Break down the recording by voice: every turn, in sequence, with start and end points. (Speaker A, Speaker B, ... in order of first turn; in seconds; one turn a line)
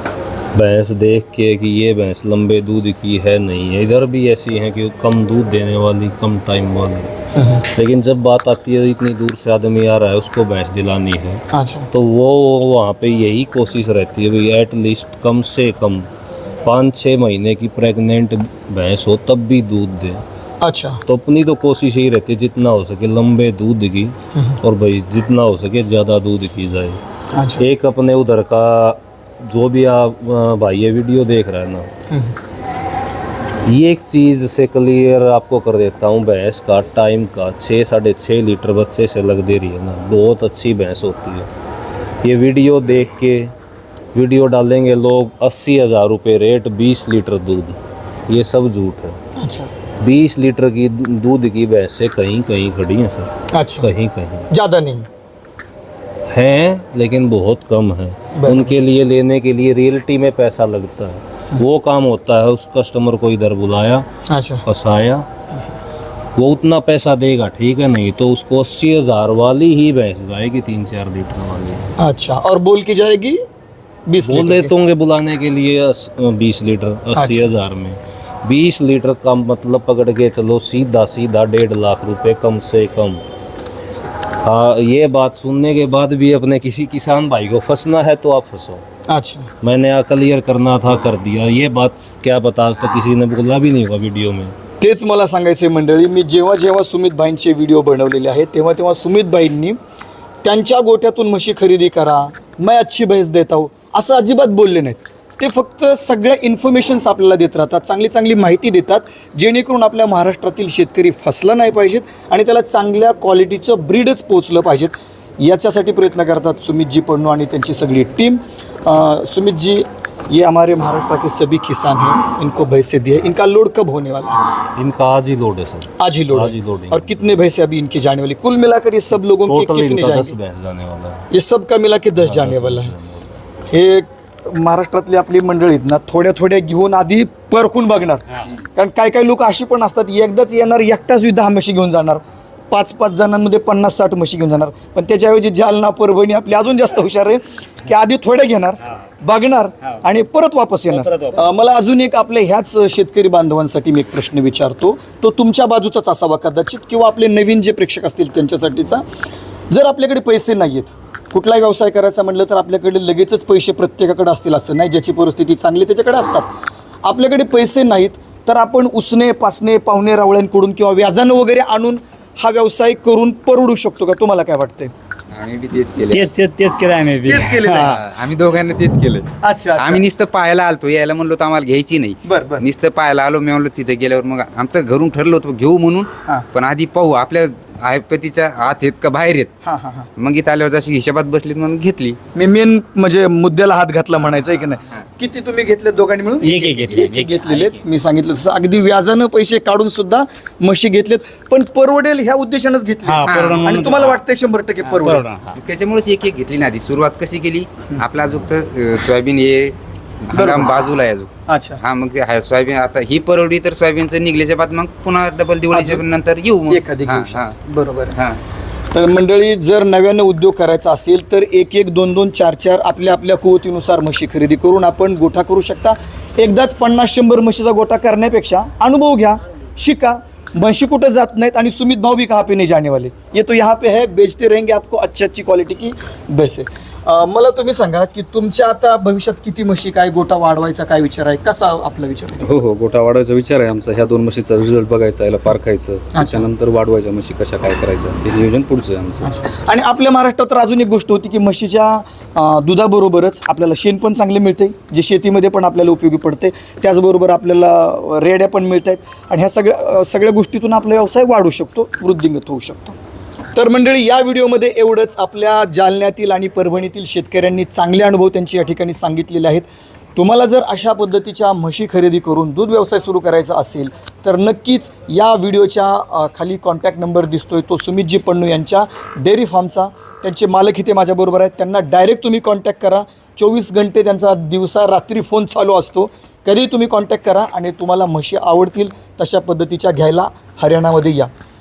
Speaker A: 0.5-16.1
Speaker B: 7.3-7.7
Speaker B: 11.5-11.9
Speaker A: 16.6-20.2
Speaker B: 20.6-21.0
Speaker A: 21.1-27.0
Speaker B: 27.3-27.6
Speaker A: 27.6-31.9
Speaker A: 33.6-41.5
Speaker A: 42.2-43.5
Speaker A: 44.1-49.2
Speaker B: 49.4-49.7
Speaker A: 50.0-54.5
Speaker B: 53.5-53.9
Speaker B: 54.5-55.1
Speaker A: 56.2-64.1
Speaker B: 58.4-58.7
Speaker B: 64.3-64.6
Speaker A: 64.6-65.3
Speaker A: 66.3-71.9
Speaker B: 72.0-73.4
Speaker B: 74.1-74.7
Speaker A: 74.2-83.2
Speaker B: 77.2-77.5
Speaker A: 84.4-88.8
Speaker B: 89.1-89.5
Speaker A: 89.6-94.5
Speaker B: 94.8-99.8
Speaker B: 100.4-124.4
Speaker A: 124.7-127.3
Speaker B: 126.0-130.3
Speaker A: 129.4-131.3
Speaker B: 131.3-132.9
Speaker A: 132.2-133.3
Speaker B: 133.7-159.1
Speaker C: 150.9-151.4
Speaker B: 159.7-166.5
Speaker B: 167.0-174.9
Speaker D: 175.3-176.3
Speaker C: 176.1-178.0
Speaker B: 177.2-178.0
Speaker D: 177.8-189.5
Speaker B: 179.4-180.0
Speaker B: 182.2-182.6
Speaker B: 189.6-190.1
Speaker D: 190.2-192.2
Speaker B: 192.3-205.2
Speaker C: 196.4-197.8
Speaker C: 203.0-204.2
Speaker D: 203.2-203.7
Speaker C: 204.9-205.5
Speaker D: 205.5-217.5
Speaker B: 210.3-210.8
Speaker B: 211.5-211.8
Speaker B: 215.7-216.0
Speaker B: 216.7-218.2
Speaker D: 218.1-218.4
Speaker B: 218.9-242.5
Speaker E: 242.4-249.3
Speaker B: 246.1-246.5
Speaker B: 249.2-262.9
Speaker B: 263.5-269.6
Speaker B: 270.1-291.3